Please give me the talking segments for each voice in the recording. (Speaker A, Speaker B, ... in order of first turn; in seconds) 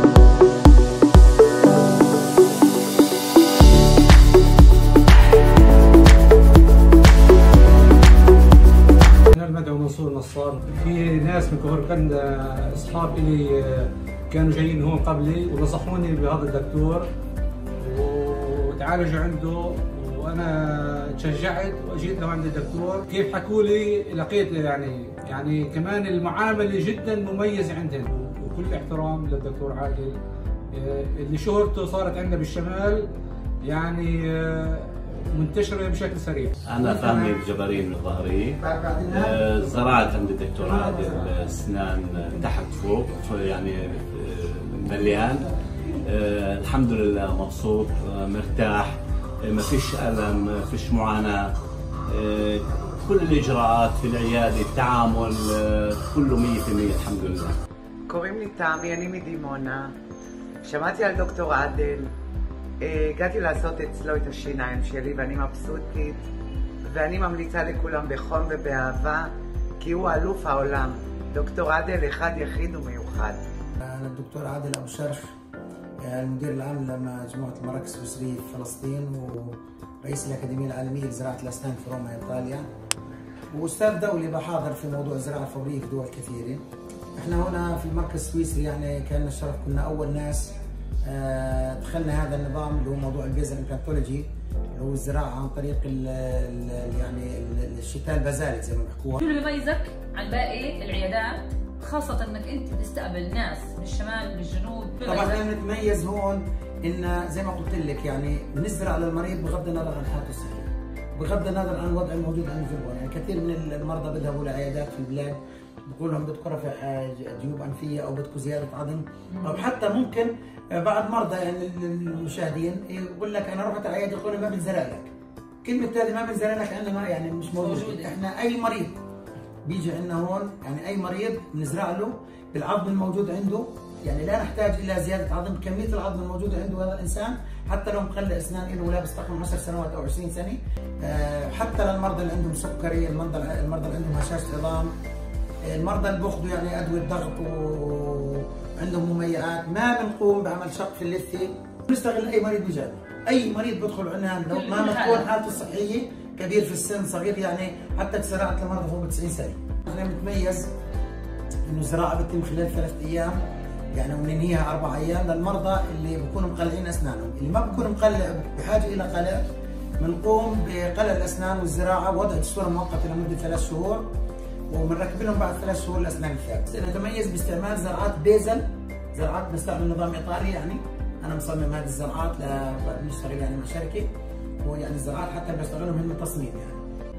Speaker A: 9.3-17.1, 17.8-30.2, 30.7-33.1, 33.6-36.5
Speaker B: 36.7-51.5, 52.1-57.5
Speaker C: 36.8-37.3, 38.6-40.1, 40.6-41.2, 73.8-75.3, 76.0-82.7, 83.5-86.6, 87.2-90.5, 91.0-99.2, 105.0-125.1, 125.6-129.0, 129.7-144.9, 145.7-160.7, 161.7-163.4, 163.9-169.4, 170.0-174.1, 174.7-184.1, 184.6-186.8
Speaker D: 58.1-59.9, 60.6-62.1, 62.8-66.2, 66.9-73.4
Speaker E: 99.2-105.4, 127.6-128.1, 154.5-155.3